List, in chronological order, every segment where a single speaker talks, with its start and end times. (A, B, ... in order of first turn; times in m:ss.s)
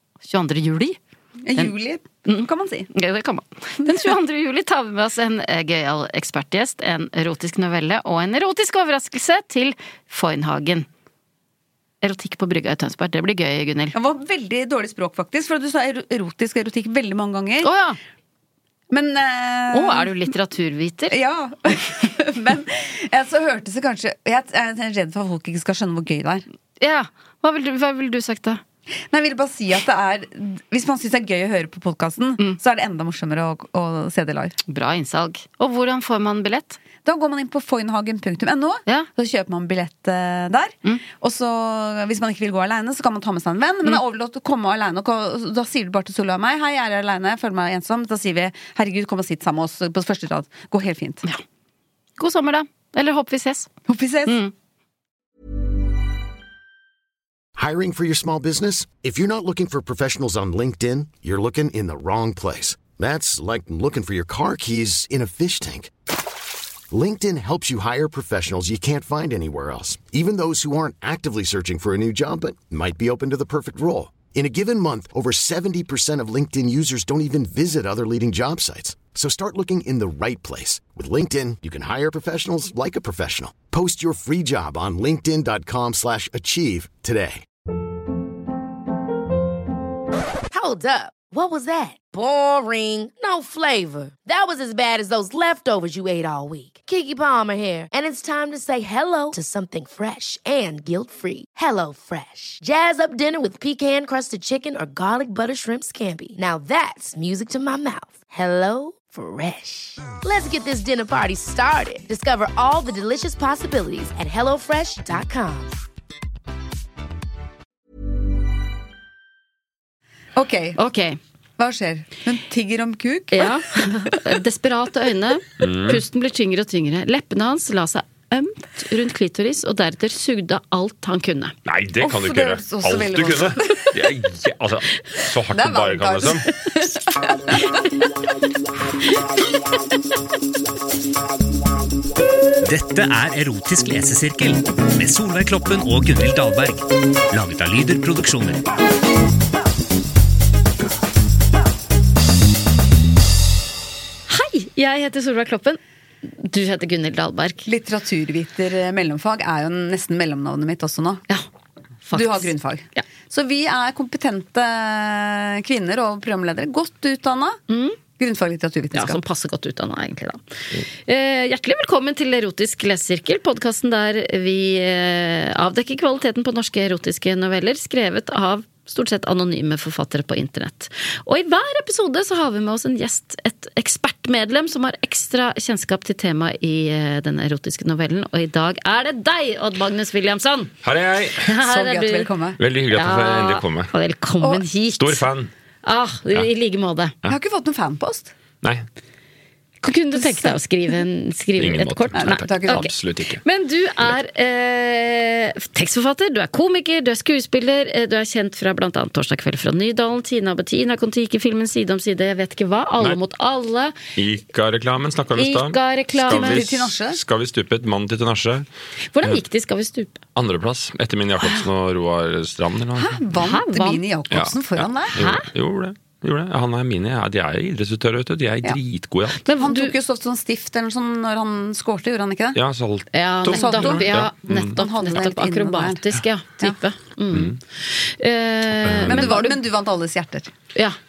0:00.2-0:01.0 A
0:01.4-0:02.9 B
0:02.2-0:10.8 A
0:12.0-0:14.0 A
0:13.9-0:17.7 B
0:17.6-0:18.0 A
0:18.9-0:20.1 B
0:19.7-0:21.1 A
0:21.1-0:26.4 B
0:26.8-0:28.6 A
0:29.1-0:34.6 B
0:34.7-0:36.8 A
0:37.0-0:51.2 B
0:52.2-0:53.7 A
0:53.9-0:54.4 B
0:54.2-0:54.5 A
0:57.6-1:05.9 C
1:06.9-1:27.4 C
1:30.5-1:55.7 D
2:00.3-2:00.8 B
2:00.8-2:01.2 A
2:01.6-2:03.5 B
2:03.3-2:11.5 A
2:05.6-2:06.0 E
2:11.6-2:16.5 E
2:12.0-2:13.9 B
2:15.5-2:17.8 B
2:22.6-2:28.6 F
2:34.3-2:37.7 A
2:37.6-2:41.2 B
2:42.0-2:43.0 A
2:42.1-2:47.6 B
2:47.7-2:48.0 A
2:48.2-2:49.2 B
2:48.9-3:10.7 A
3:10.8-3:11.5 E
3:11.4-3:12.3 A
3:11.6-3:12.6 B
3:12.6-3:13.9 E
3:12.9-3:15.2 A
3:14.9-3:15.5 E
3:15.8-3:17.1 A
3:17.3-3:18.3 B
3:19.8-3:22.9 A
3:20.1-3:20.6 B
3:21.6-3:23.4 E
3:22.2-3:22.8 B
3:23.4-3:33.9 A
3:34.2-3:38.7 E
3:35.3-3:36.6 A
3:36.2-3:37.2 B
3:39.1-3:40.2 A
3:40.4-3:43.2 E
3:43.0-3:45.1 B
3:43.3-3:44.0 A
3:44.3-3:49.4 E
3:45.1-3:45.5 A
3:49.4-3:49.9 A
3:49.6-3:52.6 B
3:52.5-3:54.8 E
3:53.1-3:59.6 A
3:53.5-3:54.1 B
3:54.6-3:56.0 B
3:57.3-3:57.6 E
3:58.8-3:59.3 E
3:59.0-4:00.5 B